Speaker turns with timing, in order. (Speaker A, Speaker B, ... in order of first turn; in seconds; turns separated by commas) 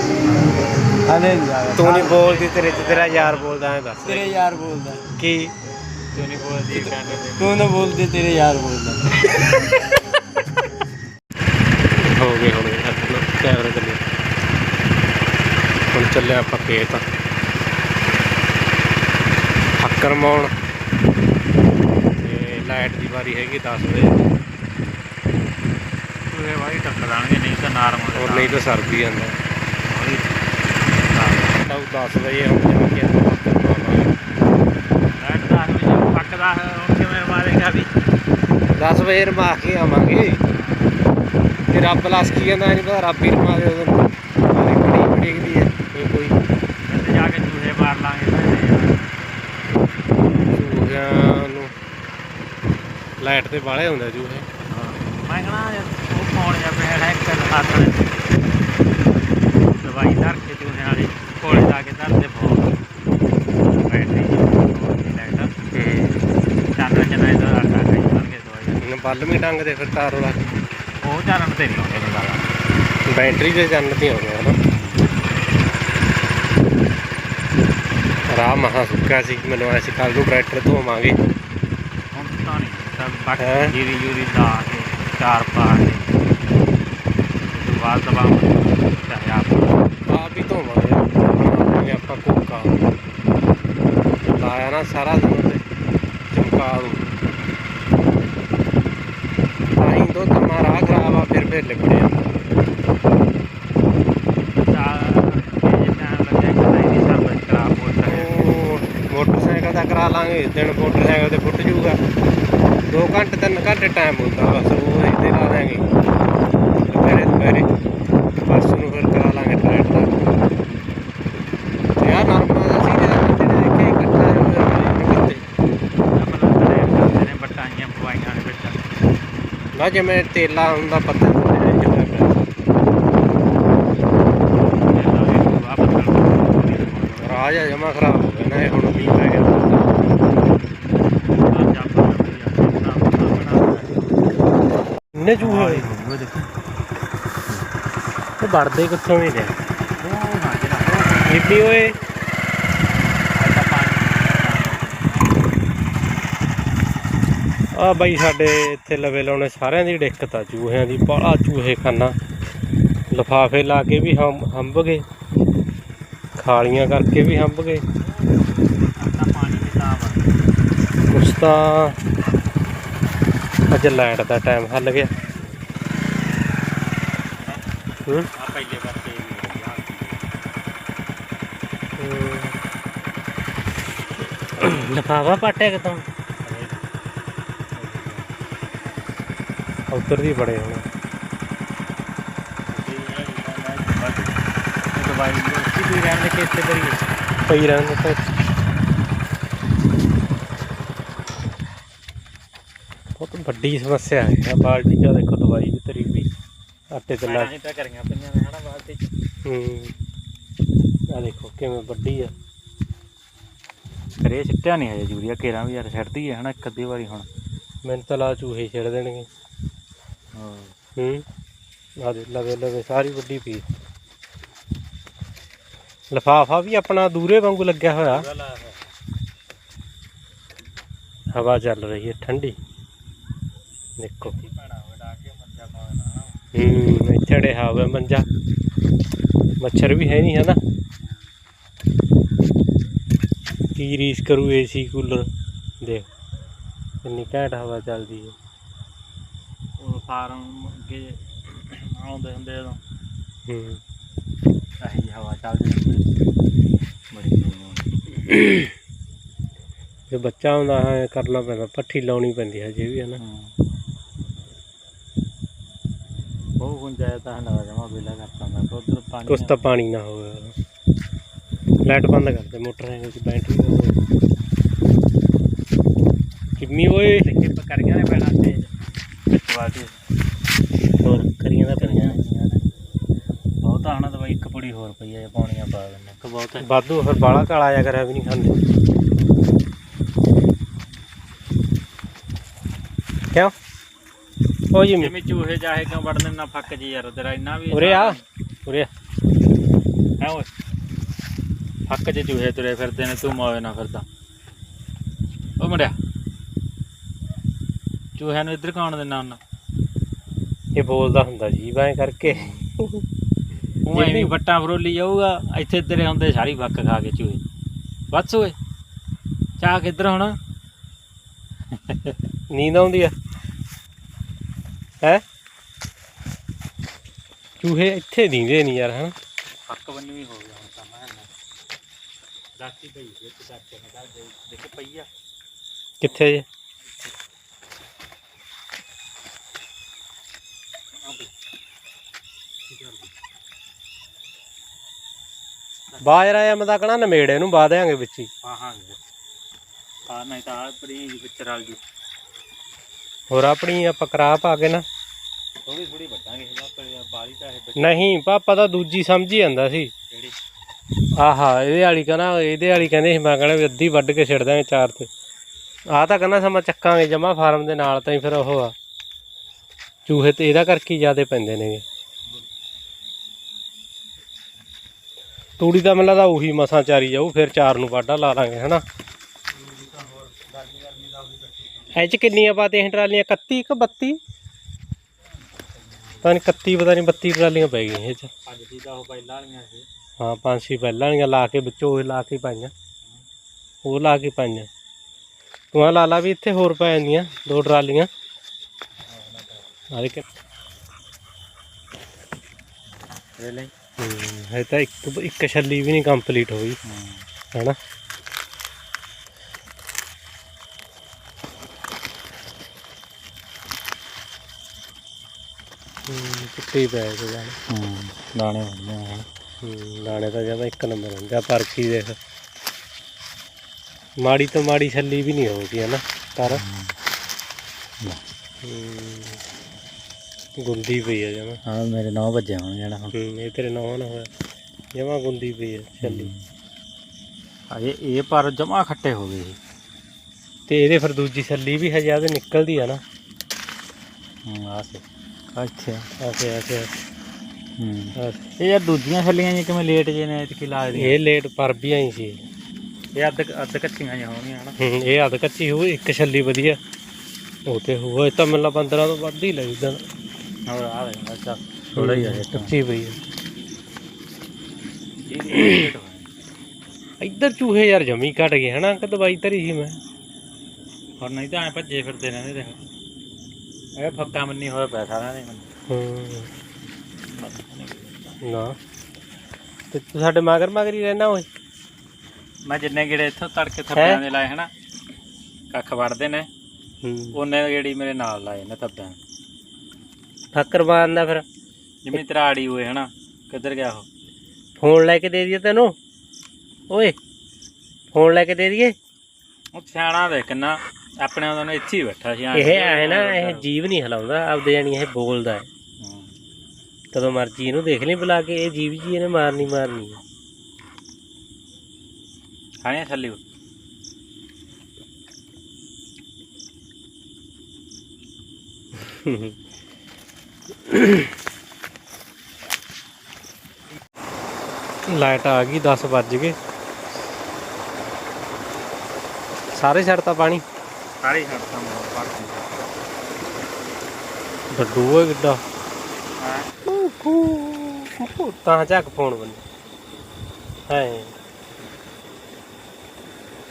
Speaker A: 1.0-2.3, Speaker B: 1.7-4.3, Speaker C: 2.1-3.6, Speaker A: 4.0-5.1, Speaker C: 4.4-4.7, Speaker B: 5.2-5.5, Speaker C: 6.1-7.7, Speaker A: 7.4-9.1, Speaker B: 11.9-14.0, Speaker B: 15.9-17.0, Speaker B: 19.8-20.5, Speaker B: 22.2-24.2, Speaker C: 26.3-28.6, Speaker B: 28.1-29.4, Speaker C: 29.9-30.5, Speaker C: 31.0-31.6, Speaker B: 31.6-34.2, Speaker C: 35.1-37.9, Speaker B: 38.8-40.4, Speaker B: 41.7-46.4, Speaker C: 46.9-49.1, Speaker B: 50.5-51.7, Speaker B: 53.2-54.5, Speaker C: 54.7-58.4, Speaker C: 59.7-62.8, Speaker C: 63.9-65.5, Speaker B: 65.7-66.2, Speaker C: 66.7-68.8, Speaker B: 68.8-70.5, Speaker C: 71.0-72.6, Speaker B: 73.1-74.6, Speaker C: 74.7-75.1, Speaker B: 78.3-81.2, Speaker C: 82.1-86.2, Speaker B: 83.4-83.8, Speaker C: 87.5-89.9, Speaker B: 90.1-92.8, Speaker B: 94.3-95.6, Speaker B: 96.3-97.1, Speaker B: 99.8-102.7, Speaker C: 104.5-108.5, Speaker B: 108.1-112.0, Speaker B: 112.9-115.9, Speaker B: 116.8-117.7, Speaker B: 118.4-120.1, Speaker B: 122.0-125.4, Speaker C: 126.1-128.8, Speaker B: 129.7-132.5, Speaker C: 134.6-137.4, Speaker B: 137.2-139.9, Speaker C: 141.3-144.0, Speaker B: 145.2-145.9, Speaker C: 145.4-146.5, Speaker B: 148.4-149.6, Speaker C: 150.0-151.8, Speaker B: 151.3-151.9, Speaker C: 153.3-155.4, Speaker B: 157.8-162.2, Speaker B: 163.1-165.1, Speaker B: 166.4-167.8, Speaker C: 168.0-170.2, Speaker B: 171.1-172.0, Speaker B: 173.7-175.1, Speaker C: 178.3-180.3, Speaker B: 182.0-182.6, Speaker B: 184.6-186.1, Speaker C: 186.4-186.8, Speaker C: 187.8-188.3, Speaker B: 189.9-190.8, Speaker C: 192.7-194.4, Speaker C: 194.9-197.0, Speaker B: 197.5-198.2, Speaker B: 203.2-206.3, Speaker B: 206.9-207.5, Speaker C: 207.2-209.1, Speaker B: 209.4-209.9, Speaker B: 211.1-212.3, Speaker C: 214.2-217.3, Speaker B: 217.8-219.3, Speaker C: 220.3-220.7, Speaker B: 221.0-221.2, Speaker B: 222.0-223.7, Speaker B: 226.1-228.3, Speaker C: 228.1-228.8, Speaker B: 231.3-232.6, Speaker B: 234.0-234.4, Speaker C: 234.2-236.4, Speaker B: 236.5-238.3, Speaker B: 239.6-240.6, Speaker B: 243.8-245.3, Speaker B: 245.8-246.1, Speaker B: 247.0-248.3, Speaker C: 249.8-252.8, Speaker B: 253.5-253.8, Speaker C: 254.8-256.0, Speaker C: 257.1-257.9, Speaker B: 258.3-258.7, Speaker B: 260.1-263.2, Speaker C: 263.2-263.5, Speaker C: 266.6-269.6, Speaker B: 269.3-270.6, Speaker B: 271.8-274.0, Speaker B: 276.6-277.3, Speaker C: 277.1-278.7, Speaker C: 279.3-279.9, Speaker B: 281.0-282.2, Speaker C: 281.8-282.6, Speaker C: 283.6-286.8, Speaker B: 286.6-288.6, Speaker B: 294.7-295.1, Speaker C: 295.0-298.8, Speaker B: 297.7-298.2, Speaker C: 300.2-300.5, Speaker C: 301.9-304.1, Speaker C: 305.6-306.0, Speaker C: 308.2-309.4, Speaker B: 310.8-313.1, Speaker C: 312.3-312.6, Speaker C: 313.8-317.4, Speaker B: 313.9-314.3, Speaker C: 318.1-318.6, Speaker C: 319.6-320.4, Speaker C: 321.7-322.2, Speaker B: 322.5-323.1, Speaker B: 327.6-329.1, Speaker C: 329.7-331.3, Speaker C: 332.6-335.1, Speaker B: 336.0-336.4, Speaker C: 341.0-341.3, Speaker C: 342.7-343.1, Speaker B: 346.0-348.3, Speaker C: 348.4-349.0, Speaker C: 350.1-351.8, Speaker B: 353.3-354.9, Speaker C: 355.6-358.1, Speaker B: 357.8-359.9, Speaker C: 360.1-360.4, Speaker B: 361.2-365.1, Speaker B: 365.9-368.8, Speaker B: 370.1-371.8, Speaker B: 375.6-378.8, Speaker C: 379.7-381.5, Speaker B: 381.9-384.2, Speaker C: 385.6-386.3, Speaker B: 386.2-388.3, Speaker C: 388.5-389.9, Speaker B: 390.2-392.7, Speaker B: 393.9-394.7, Speaker B: 395.7-398.1, Speaker C: 399.1-399.6, Speaker B: 399.9-400.2, Speaker C: 403.4-403.7, Speaker B: 404.0-406.8, Speaker C: 406.8-407.2, Speaker B: 416.1-417.6, Speaker C: 417.7-419.3, Speaker B: 419.6-422.2, Speaker B: 424.2-426.6, Speaker C: 426.4-426.9, Speaker B: 428.6-429.4, Speaker B: 430.6-431.6, Speaker C: 431.6-433.1, Speaker B: 433.1-434.3, Speaker B: 434.9-436.3, Speaker C: 436.0-436.4, Speaker C: 437.7-439.6, Speaker B: 440.7-443.0, Speaker C: 444.5-445.0, Speaker C: 445.6-446.1, Speaker B: 446.2-447.0, Speaker C: 447.8-451.2, Speaker B: 450.9-452.4, Speaker C: 453.1-454.8, Speaker B: 454.8-456.8, Speaker B: 457.7-460.0, Speaker C: 460.7-462.8, Speaker B: 461.9-463.2, Speaker C: 465.2-466.3, Speaker B: 467.2-470.0, Speaker C: 471.2-472.8, Speaker C: 474.0-475.7, Speaker B: 475.9-476.5, Speaker C: 477.3-478.4, Speaker B: 478.4-478.8, Speaker B: 479.9-481.5, Speaker C: 482.6-484.7, Speaker B: 483.9-484.2, Speaker C: 485.7-486.5, Speaker B: 487.0-487.4, Speaker C: 487.3-489.2, Speaker B: 490.5-491.4, Speaker C: 492.1-494.1, Speaker B: 494.8-495.9, Speaker B: 496.9-497.2, Speaker B: 498.1-499.0, Speaker C: 499.7-503.7, Speaker B: 502.5-505.7, Speaker C: 506.0-506.3, Speaker B: 507.1-510.2, Speaker C: 512.8-513.4, Speaker B: 519.0-519.6, Speaker B: 520.9-521.3, Speaker B: 525.1-526.6, Speaker B: 529.8-530.6, Speaker C: 531.2-532.9, Speaker B: 534.7-535.6, Speaker C: 536.4-536.7, Speaker B: 536.9-539.6, Speaker B: 540.9-541.3